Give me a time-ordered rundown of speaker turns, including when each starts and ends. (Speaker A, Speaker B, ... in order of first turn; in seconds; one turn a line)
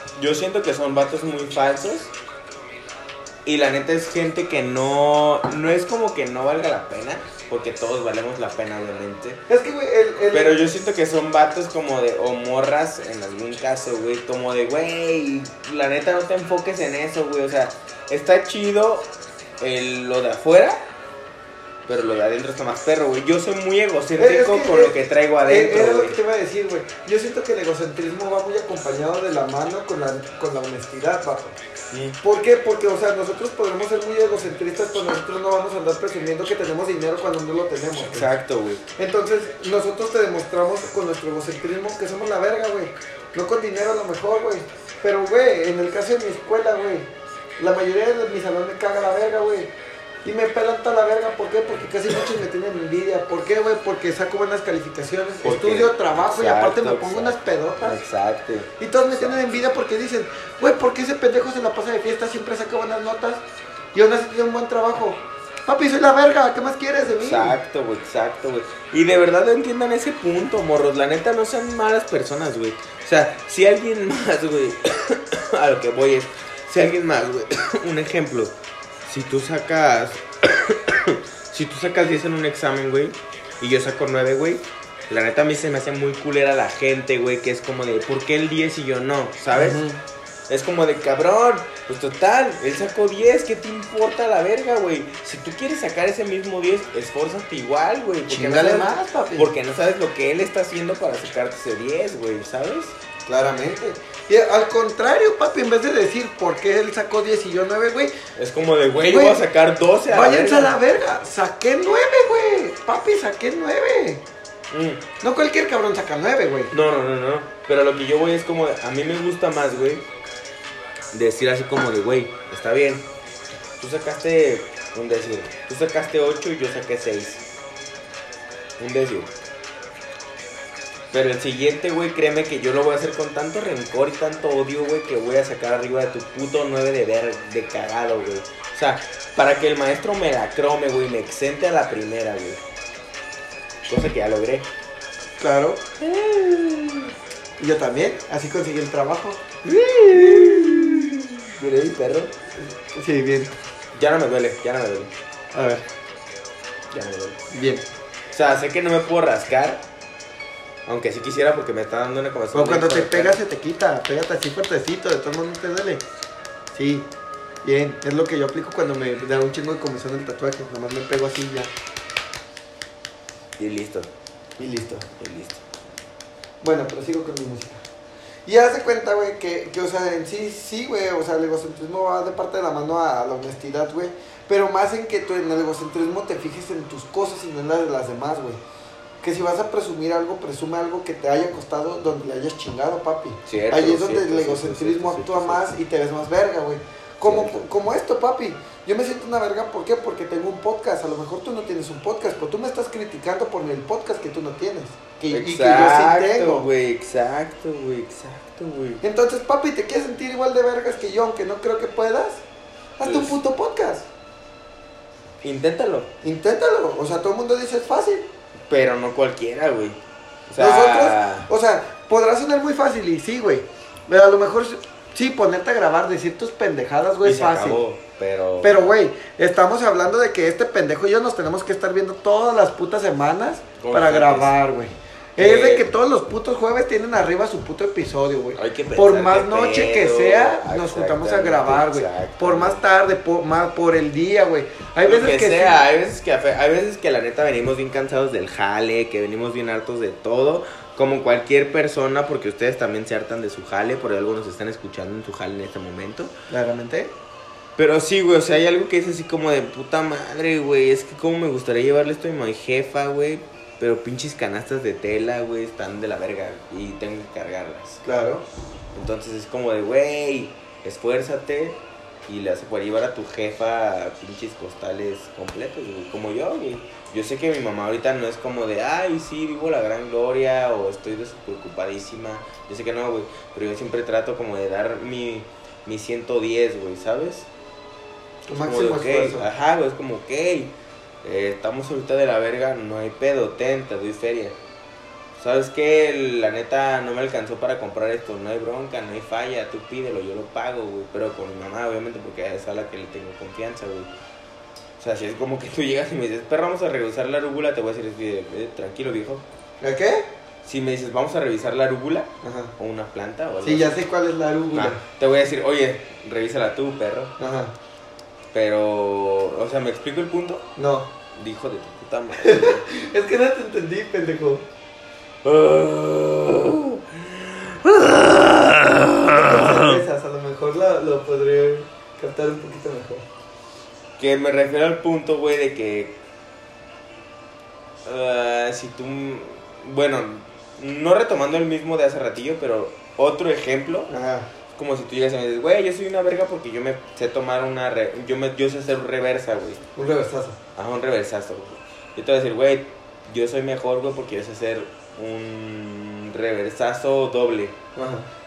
Speaker A: 0.1-2.1
Speaker A: 3.4-9.4
Speaker B: 9.5-10.7
Speaker A: 10.3-20.8
Speaker A: 21.9-26.2
Speaker B: 24.2-31.6
Speaker A: 31.9-32.2
Speaker B: 32.2-38.3
Speaker A: 38.0-38.8
Speaker B: 39.0-49.7
Speaker B: 50.2-58.0
Speaker A: 55.4-59.4
Speaker B: 58.8-63.4
Speaker B: 63.9-67.6
Speaker A: 67.2-89.8
Speaker B: 89.5-90.0
Speaker A: 90.5-103.0
Speaker B: 98.3-99.5
Speaker B: 103.2-108.1
Speaker A: 108.3-110.7
Speaker B: 109.0-109.4
Speaker B: 110.1-114.2
Speaker A: 114.7-115.0
Speaker B: 115.2-116.7
Speaker A: 116.7-120.0
Speaker A: 121.1-123.1
Speaker A: 123.8-127.5
Speaker A: 128.8-129.3
Speaker A: 131.1-142.6
Speaker A: 143.9-144.7
Speaker B: 145.4-145.8
Speaker A: 146.0-147.1
Speaker B: 147.6-151.1
Speaker A: 149.6-152.3
Speaker B: 152.6-153.5
Speaker A: 153.9-155.1
Speaker B: 155.5-155.8
Speaker A: 156.9-157.4
Speaker B: 157.5-157.8
Speaker A: 158.3-159.8
Speaker A: 160.8-163.4
Speaker B: 162.5-166.0
Speaker B: 166.7-167.1
Speaker B: 167.6-171.7
Speaker A: 173.6-174.1
Speaker B: 174.6-175.1
Speaker A: 175.1-175.6
Speaker B: 176.6-177.8
Speaker B: 178.4-188.6
Speaker B: 189.2-206.7
Speaker A: 193.4-195.7
Speaker A: 197.2-197.7
Speaker A: 205.3-209.0
Speaker B: 209.0-212.4
Speaker B: 213.0-214.1
Speaker A: 213.0-213.4
Speaker A: 215.4-216.1
Speaker B: 216.2-218.3
Speaker A: 218.7-221.5
Speaker B: 220.6-227.8
Speaker A: 227.2-228.9
Speaker B: 228.6-245.8
Speaker A: 233.8-234.5
Speaker A: 235.4-235.9
Speaker A: 238.5-242.8
Speaker A: 245.0-256.3
Speaker B: 256.5-257.1
Speaker A: 257.8-268.0
Speaker B: 268.0-268.4
Speaker A: 268.9-287.5
Speaker B: 288.5-289.4
Speaker A: 288.6-294.6
Speaker A: 295.4-304.1
Speaker A: 305.0-309.4
Speaker B: 309.8-310.3
Speaker A: 310.6-313.9
Speaker B: 312.4-312.7
Speaker B: 313.6-315.0
Speaker A: 314.7-317.3
Speaker B: 317.4-317.7
Speaker A: 318.5-320.6
Speaker B: 320.8-321.1
Speaker A: 321.3-322.8
Speaker B: 322.4-324.7
Speaker A: 325.4-330.0
Speaker B: 329.3-333.2
Speaker A: 334.2-336.2
Speaker A: 338.0-344.1
Speaker B: 344.1-344.5
Speaker A: 344.7-349.8
Speaker B: 349.9-350.6
Speaker A: 350.8-357.8
Speaker B: 357.9-358.3